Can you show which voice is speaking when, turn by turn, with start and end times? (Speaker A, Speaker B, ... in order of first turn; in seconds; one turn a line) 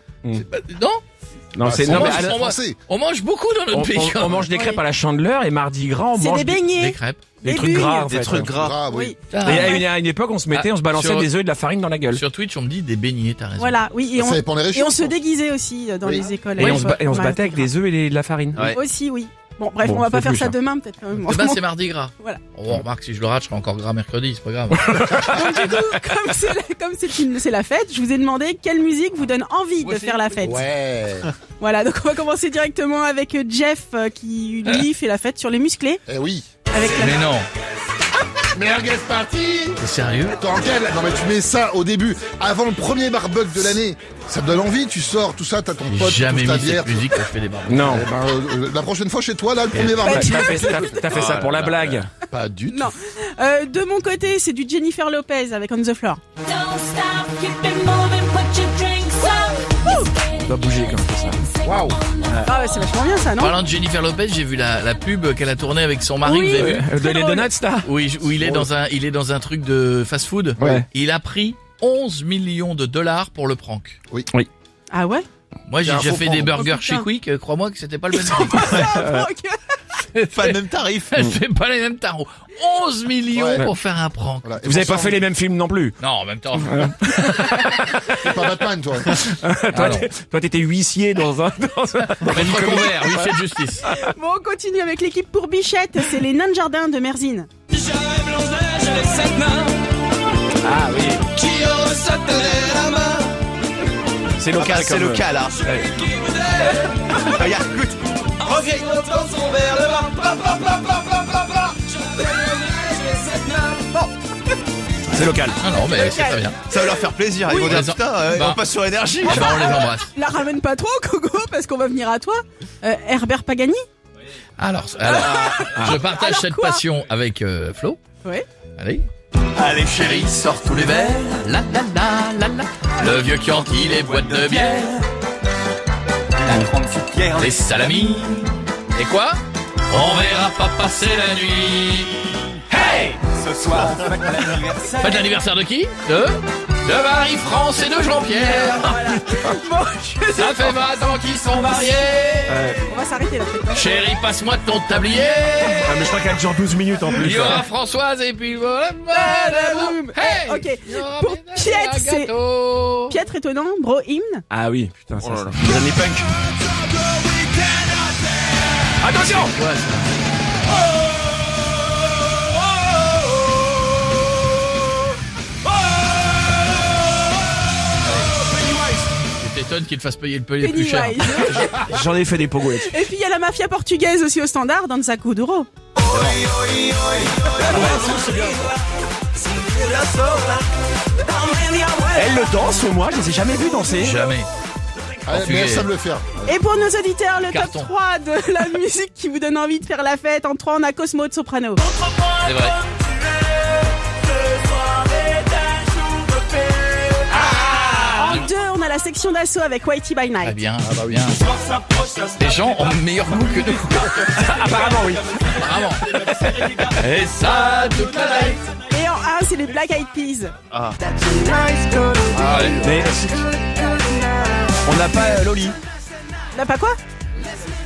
Speaker A: 0.5-1.0
Speaker B: 1.5-2.4
Speaker C: 1.6-2.8
Speaker A: 1.7-4.5
Speaker B: 3.7-6.7
Speaker D: 4.5-4.8
Speaker D: 6.2-8.2
Speaker A: 6.8-7.4
Speaker B: 7.4-8.7
Speaker C: 8.2-9.2
Speaker E: 8.2-8.7
Speaker D: 8.9-9.8
Speaker A: 9.3-9.8
Speaker B: 9.4-12.2
Speaker A: 10.5-11.3
Speaker A: 12.1-13.8
Speaker D: 13.6-17.7
Speaker C: 14.2-15.2
Speaker B: 16.6-18.8
Speaker D: 18.7-21.6
Speaker B: 19.8-20.6
Speaker A: 21.3-25.2
Speaker B: 24.8-25.6
Speaker D: 25.1-30.6
Speaker A: 29.8-30.6
Speaker C: 30.4-31.3
Speaker D: 31.6-36.0
Speaker C: 36.1-36.5
Speaker D: 36.7-37.3
Speaker A: 36.8-37.4
Speaker C: 38.5-39.8
Speaker A: 39.8-40.4
Speaker C: 40.3-47.1
Speaker A: 45.9-47.9
Speaker B: 47.7-48.1
Speaker C: 47.9-50.6
Speaker B: 49.9-52.1
Speaker D: 50.0-51.1
Speaker E: 51.1-52.0
Speaker C: 52.2-52.9
Speaker D: 52.7-56.2
Speaker F: 56.5-60.0
Speaker D: 59.9-60.1
Speaker B: 60.4-61.5
Speaker C: 61.6-62.0
Speaker D: 62.5-63.5
Speaker A: 63.4-66.9
Speaker D: 66.2-67.5
Speaker B: 66.5-67.9
Speaker A: 67.8-74.0
Speaker C: 68.4-68.7
Speaker C: 70.6-70.8
Speaker B: 70.6-70.9
Speaker D: 74.9-75.3
Speaker A: 75.7-79.0
Speaker B: 75.8-76.5
Speaker D: 76.5-77.1
Speaker D: 78.3-79.6
Speaker E: 78.6-78.9
Speaker B: 79.0-79.3
Speaker A: 80.1-84.6
Speaker E: 80.3-81.2
Speaker C: 83.4-83.7
Speaker C: 84.4-85.2
Speaker B: 84.6-86.0
Speaker A: 86.0-87.8
Speaker B: 86.6-88.2
Speaker C: 88.2-89.2
Speaker B: 89.2-94.1
Speaker A: 89.7-90.1
Speaker A: 92.3-93.9
Speaker D: 93.9-97.5
Speaker B: 97.9-99.7
Speaker B: 100.6-101.3
Speaker E: 101.3-103.3
Speaker B: 104.4-105.9
Speaker E: 104.5-105.6
Speaker E: 106.7-111.6
Speaker B: 115.1-115.6
Speaker A: 115.6-116.6
Speaker D: 115.9-116.9
Speaker E: 116.7-119.8
Speaker D: 117.5-117.8
Speaker A: 117.5-118.6
Speaker D: 119.3-123.8
Speaker A: 119.3-120.1
Speaker A: 124.6-128.0
Speaker D: 125.0-126.8
Speaker B: 125.3-126.0
Speaker A: 128.8-129.1
Speaker A: 129.6-135.0
Speaker E: 136.4-137.5
Speaker B: 136.7-137.2
Speaker A: 137.4-139.4
Speaker A: 139.9-142.3
Speaker B: 142.7-144.9
Speaker E: 143.5-144.8
Speaker A: 144.9-149.1
Speaker D: 148.7-150.8
Speaker A: 150.3-152.7
Speaker B: 152.5-152.8
Speaker D: 152.9-153.9
Speaker A: 153.7-156.1
Speaker B: 155.8-157.7
Speaker A: 157.1-163.2
Speaker D: 159.1-162.3
Speaker D: 163.1-164.4
Speaker B: 164.5-166.3
Speaker E: 165.2-165.8
Speaker B: 169.0-169.5
Speaker A: 169.1-170.3
Speaker A: 179.2-181.5
Speaker D: 180.6-181.9
Speaker B: 181.6-182.9
Speaker D: 182.8-185.7
Speaker A: 186.1-186.5
Speaker E: 186.6-188.2
Speaker B: 187.6-188.7
Speaker E: 190.0-190.5
Speaker D: 191.3-192.2
Speaker B: 192.2-194.2
Speaker A: 193.9-194.5
Speaker C: 195.3-196.5
Speaker A: 195.3-195.9
Speaker D: 196.5-201.8
Speaker A: 197.5-197.9
Speaker A: 202.3-202.8
Speaker A: 207.4-208.5
Speaker D: 207.5-210.6
Speaker A: 210.4-211.4
Speaker C: 210.8-211.1
Speaker A: 212.4-214.3
Speaker B: 214.2-215.6
Speaker A: 215.5-218.7
Speaker D: 218.9-220.6
Speaker E: 220.7-223.0
Speaker A: 222.3-222.8
Speaker B: 222.8-223.6
Speaker B: 224.8-225.8
Speaker D: 226.5-227.0